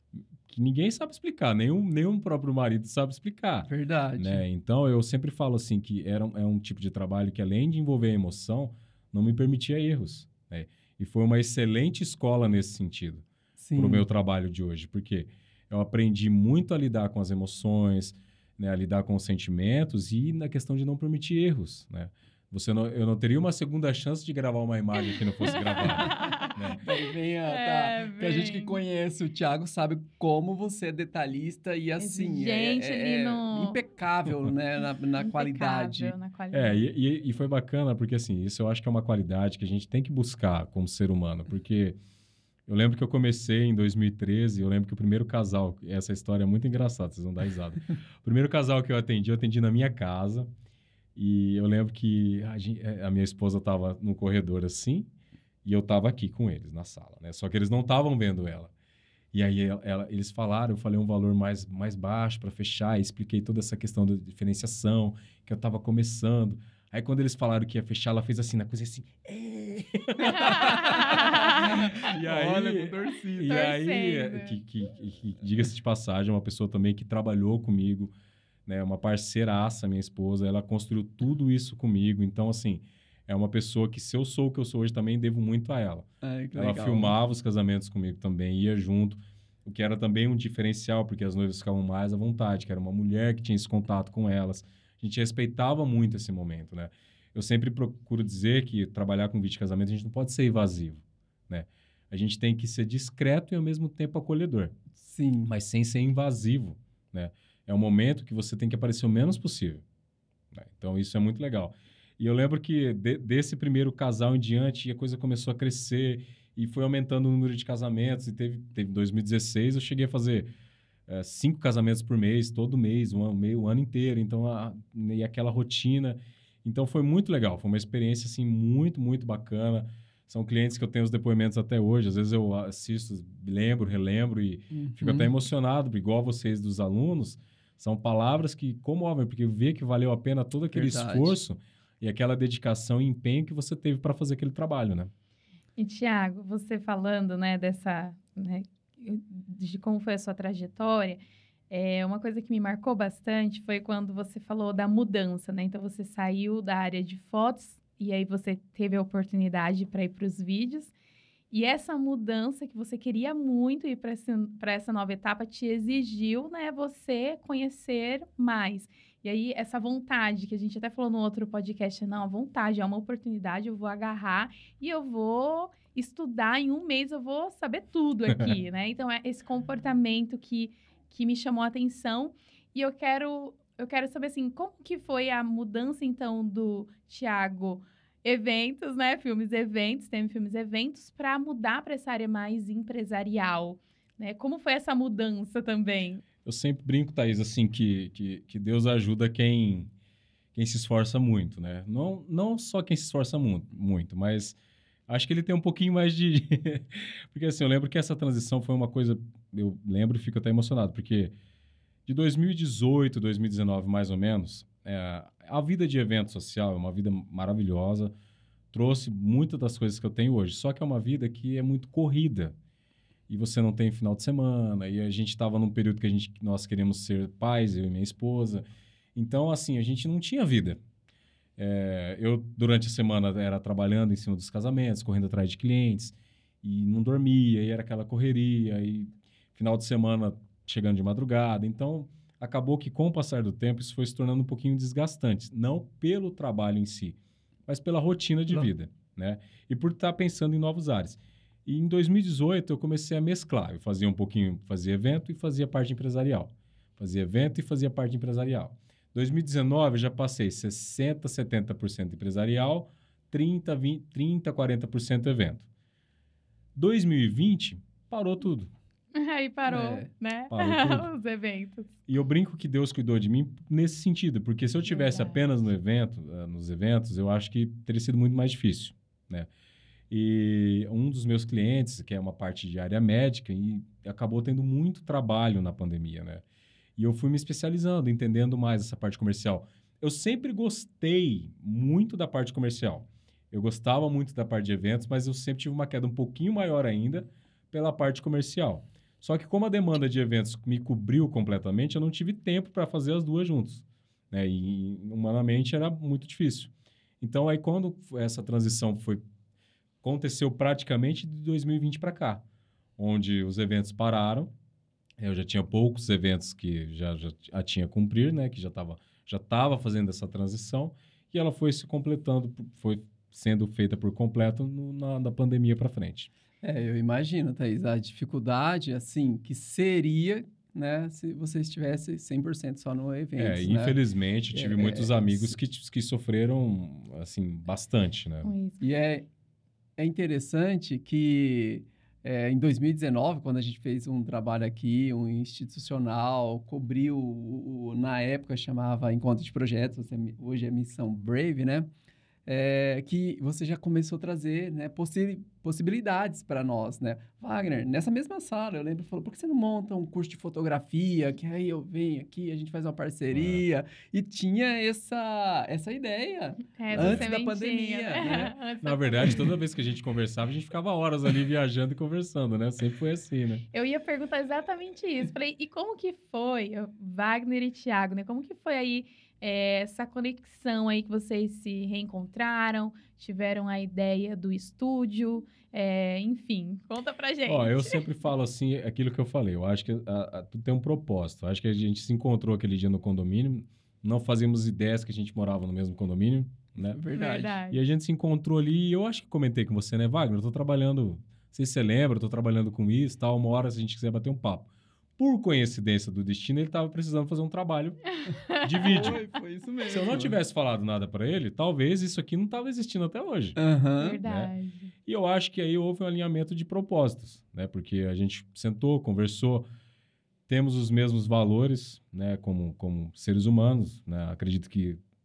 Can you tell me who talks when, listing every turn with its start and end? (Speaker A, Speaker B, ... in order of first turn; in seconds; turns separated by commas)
Speaker A: 0.5-26.8, Speaker B: 3.7-4.4, Speaker B: 13.6-14.1, Speaker C: 25.4-26.5, Speaker B: 26.8-36.1, Speaker C: 27.4-28.8, Speaker C: 32.0-33.8, Speaker C: 35.2-36.9, Speaker A: 36.5-42.0, Speaker A: 42.7-50.5, Speaker A: 51.1-55.1, Speaker A: 55.6-58.7, Speaker A: 59.3-78.1, Speaker B: 70.2-73.7, Speaker C: 70.3-71.7, Speaker C: 73.4-74.6, Speaker A: 78.7-104.7, Speaker B: 86.2-87.2, Speaker B: 105.0-105.5, Speaker A: 105.5-109.8, Speaker A: 110.5-120.5, Speaker A: 121.1-145.1, Speaker B: 134.7-135.3, Speaker B: 140.7-141.4, Speaker C: 145.8-160.9, Speaker C: 161.5-196.2, Speaker A: 196.4-199.9, Speaker A: 200.5-204.6, Speaker A: 205.1-211.3, Speaker A: 212.1-218.1, Speaker A: 218.7-222.5, Speaker A: 223.3-228.6, Speaker A: 229.1-230.8, Speaker A: 231.6-265.6, Speaker A: 266.7-268.7, Speaker C: 269.1-271.9, Speaker B: 269.7-270.1, Speaker A: 270.5-271.1, Speaker A: 272.1-279.5, Speaker C: 274.9-275.4, Speaker A: 280.1-286.4, Speaker A: 287.0-309.2, Speaker A: 310.0-312.4, Speaker A: 313.0-314.5, Speaker A: 315.2-326.3, Speaker B: 326.6-334.0, Speaker A: 333.4-338.5, Speaker B: 334.5-335.5, Speaker C: 338.4-338.8, Speaker B: 338.8-339.3, Speaker B: 340.0-351.9, Speaker B: 352.4-368.6, Speaker A: 363.3-363.6, Speaker C: 366.8-369.5, Speaker A: 366.9-367.3, Speaker A: 368.8-373.6, Speaker C: 373.7-388.0, Speaker A: 387.4-397.0, Speaker B: 396.9-397.6, Speaker C: 397.1-397.8, Speaker A: 397.7-409.2, Speaker C: 408.4-409.1, Speaker B: 408.8-410.4, Speaker A: 409.9-413.6, Speaker B: 413.6-414.2, Speaker C: 414.0-414.9, Speaker A: 414.2-414.5, Speaker A: 415.1-419.6, Speaker A: 420.5-425.0